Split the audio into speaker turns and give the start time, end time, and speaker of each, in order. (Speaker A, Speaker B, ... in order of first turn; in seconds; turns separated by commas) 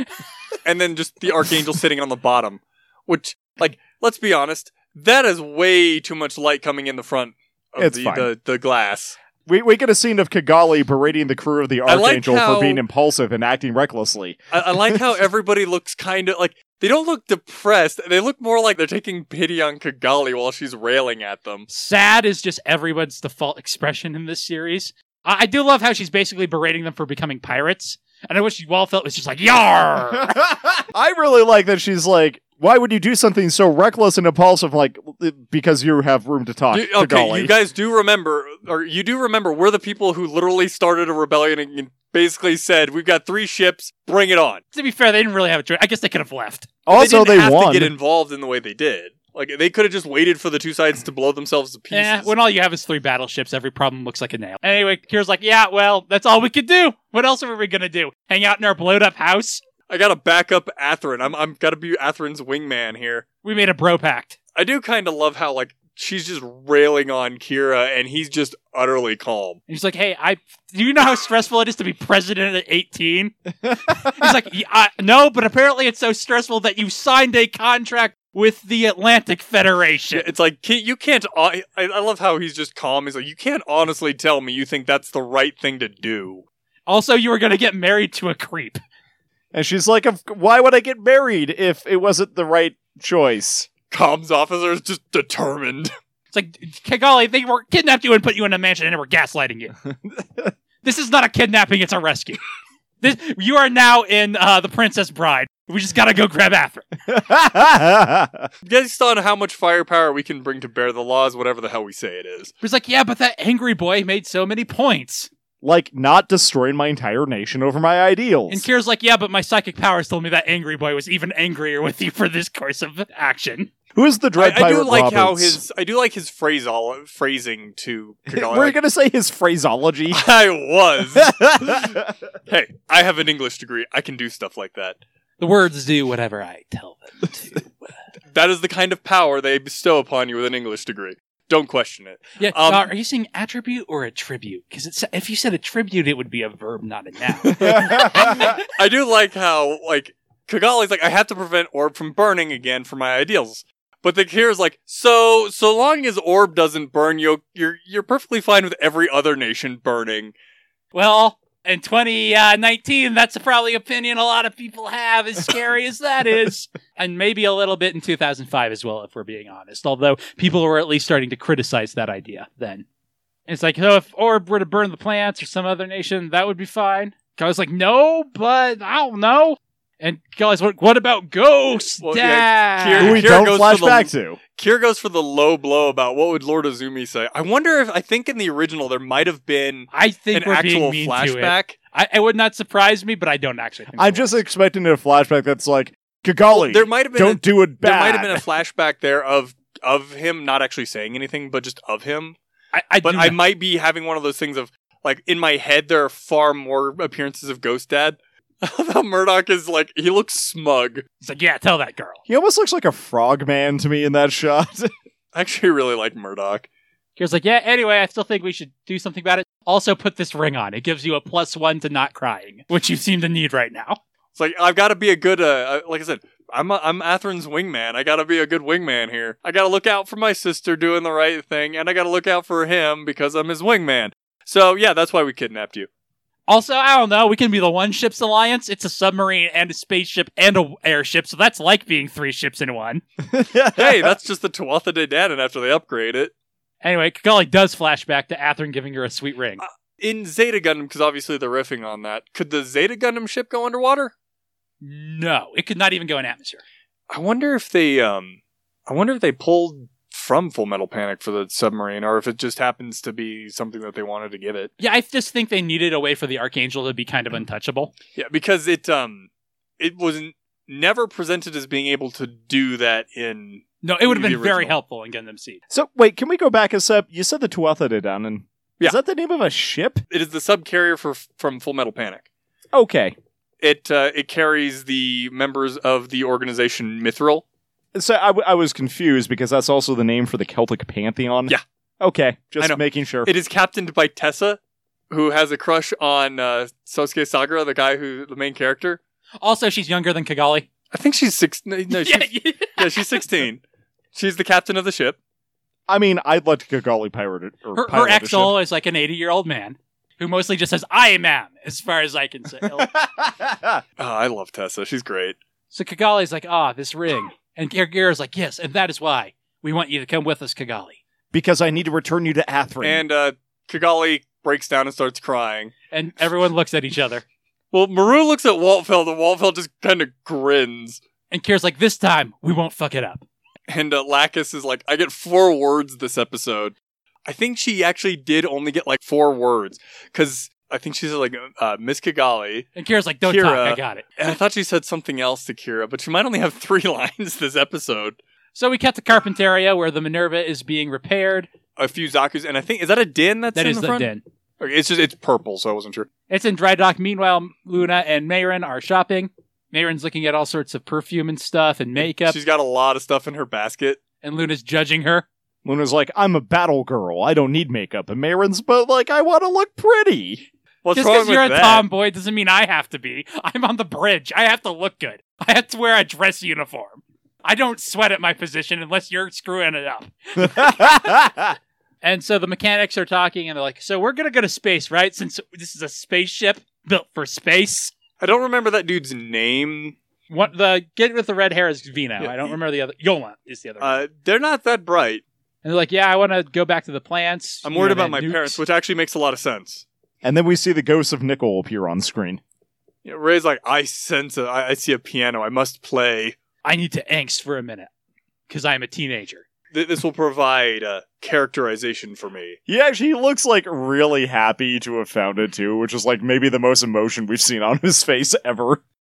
Speaker A: 0.7-9.2, Speaker B: 7.8-8.3, Speaker B: 9.5-15.0, Speaker A: 11.9-12.8, Speaker A: 14.5-21.7, Speaker C: 21.7-30.4, Speaker B: 30.2-37.5, Speaker A: 36.7-44.6, Speaker C: 44.7-46.8, Speaker B: 46.9-47.9, Speaker A: 46.9-52.3, Speaker C: 51.9-59.6, Speaker A: 59.9-63.3, Speaker C: 63.4-64.4, Speaker A: 64.5-69.6, Speaker C: 69.7-73.3, Speaker C: 73.9-80.3, Speaker A: 80.1-86.5, Speaker C: 86.9-88.8, Speaker B: 89.5-93.7, Speaker A: 93.9-95.9, Speaker C: 96.3-99.8, Speaker B: 100.1-100.5, Speaker C: 100.8-102.4, Speaker C: 103.0-106.9, Speaker B: 107.1-108.5, Speaker A: 108.7-112.5, Speaker C: 112.6-115.3, Speaker B: 115.6-118.7, Speaker C: 118.5-123.7, Speaker B: 124.0-125.6, Speaker A: 124.4-128.8, Speaker B: 128.3-130.2, Speaker A: 130.1-131.3, Speaker B: 131.1-132.1, Speaker A: 132.5-135.0, Speaker C: 135.4-137.7, Speaker A: 138.3-142.9, Speaker C: 142.4-148.6, Speaker B: 147.5-148.5, Speaker A: 147.6-160.3, Speaker C: 160.9-172.8, Speaker C: 173.5-183.3, Speaker A: 182.0-191.8, Speaker B: 183.0-184.4, Speaker C: 189.9-194.4, Speaker B: 194.0-198.4, Speaker A: 196.5-202.4, Speaker C: 202.7-203.4, Speaker A: 203.0-211.1, Speaker C: 211.2-212.2, Speaker B: 212.3-214.9, Speaker A: 215.3-216.7, Speaker C: 217.2-224.0, Speaker A: 224.3-235.9, Speaker C: 236.5-243.0, Speaker B: 243.2-244.2, Speaker A: 243.8-246.3, Speaker C: 246.8-249.6, Speaker A: 249.6-254.1, Speaker C: 254.8-256.6, Speaker A: 257.1-264.7, Speaker C: 264.8-267.9, Speaker A: 268.1-269.3, Speaker A: 269.8-274.7, Speaker C: 273.8-275.6, Speaker B: 275.7-280.0, Speaker A: 280.1-282.2, Speaker B: 282.7-283.2, Speaker A: 283.6-287.4, Speaker B: 287.9-293.3, Speaker A: 292.6-294.6, Speaker A: 295.1-299.0, Speaker C: 299.4-300.7, Speaker A: 300.9-303.6, Speaker C: 301.9-303.1, Speaker A: 304.1-305.2, Speaker B: 305.9-308.6, Speaker C: 307.8-312.9, Speaker B: 312.8-313.8, Speaker A: 314.0-315.4, Speaker C: 315.7-321.0, Speaker B: 321.3-323.0, Speaker A: 322.8-325.7, Speaker C: 325.9-327.2, Speaker A: 327.7-331.0, Speaker C: 331.3-333.2, Speaker A: 333.7-342.7, Speaker C: 342.8-344.1, Speaker A: 343.3-348.2, Speaker C: 348.6-351.5, Speaker A: 351.8-356.1, Speaker C: 353.6-354.2, Speaker C: 356.3-362.4, Speaker A: 362.3-364.0, Speaker C: 364.2-365.3, Speaker B: 365.6-370.5, Speaker A: 370.8-371.9, Speaker C: 370.9-381.3, Speaker B: 380.4-381.6, Speaker C: 382.0-387.9, Speaker A: 388.2-390.0, Speaker C: 390.3-394.0, Speaker A: 392.2-392.6, Speaker A: 393.8-395.2, Speaker C: 395.6-398.6, Speaker A: 397.6-399.9, Speaker B: 400.2-402.4, Speaker A: 403.1-406.4, Speaker C: 406.6-407.9, Speaker C: 408.5-409.4, Speaker A: 409.7-412.6, Speaker B: 412.7-418.8